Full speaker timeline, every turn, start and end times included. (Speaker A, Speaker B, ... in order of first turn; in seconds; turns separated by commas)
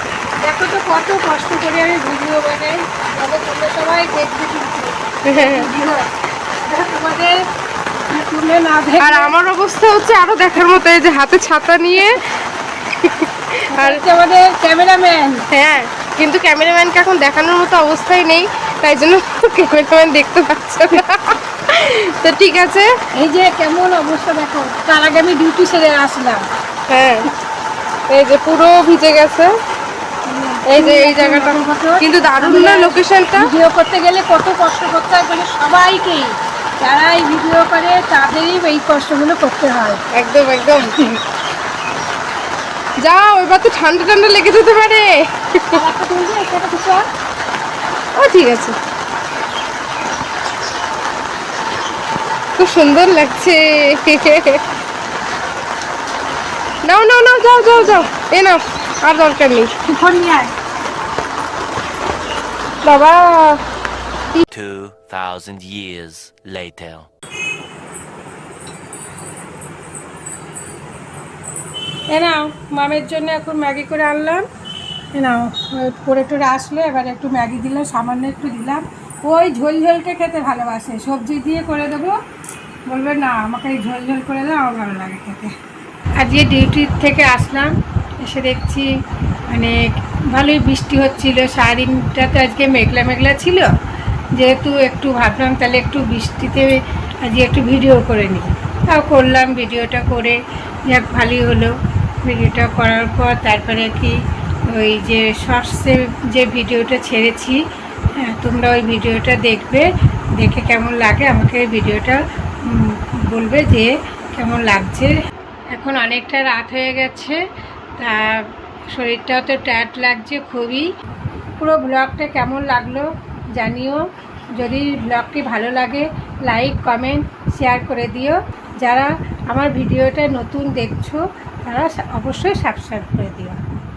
Speaker A: 0.4-6.1, Speaker B: 5.2-5.7, Speaker A: 6.7-7.4, Speaker A: 8.1-9.3, Speaker B: 9.0-12.2, Speaker B: 13.0-14.0, Speaker A: 13.7-15.4, Speaker B: 15.5-22.9, Speaker A: 23.1-26.4, Speaker B: 26.9-27.3, Speaker B: 28.1-29.6, Speaker A: 30.2-40.0, Speaker B: 30.7-33.5, Speaker B: 40.1-41.2, Speaker B: 43.0-45.8, Speaker A: 45.7-47.1, Speaker B: 48.2-48.8, Speaker B: 52.6-54.6, Speaker B: 56.8-59.7, Speaker A: 59.9-60.5, Speaker B: 62.8-63.6, Speaker C: 64.5-67.1, Speaker A: 72.1-74.5, Speaker A: 75.1-82.2, Speaker A: 82.9-85.5, Speaker A: 86.2-87.7, Speaker A: 88.2-88.9, Speaker A: 89.5-93.7, Speaker A: 94.3-104.2, Speaker A: 104.7-107.6, Speaker A: 108.2-109.9, Speaker A: 110.4-115.1, Speaker A: 115.7-117.4, Speaker A: 118.0-120.9, Speaker A: 121.6-124.1, Speaker A: 124.6-133.6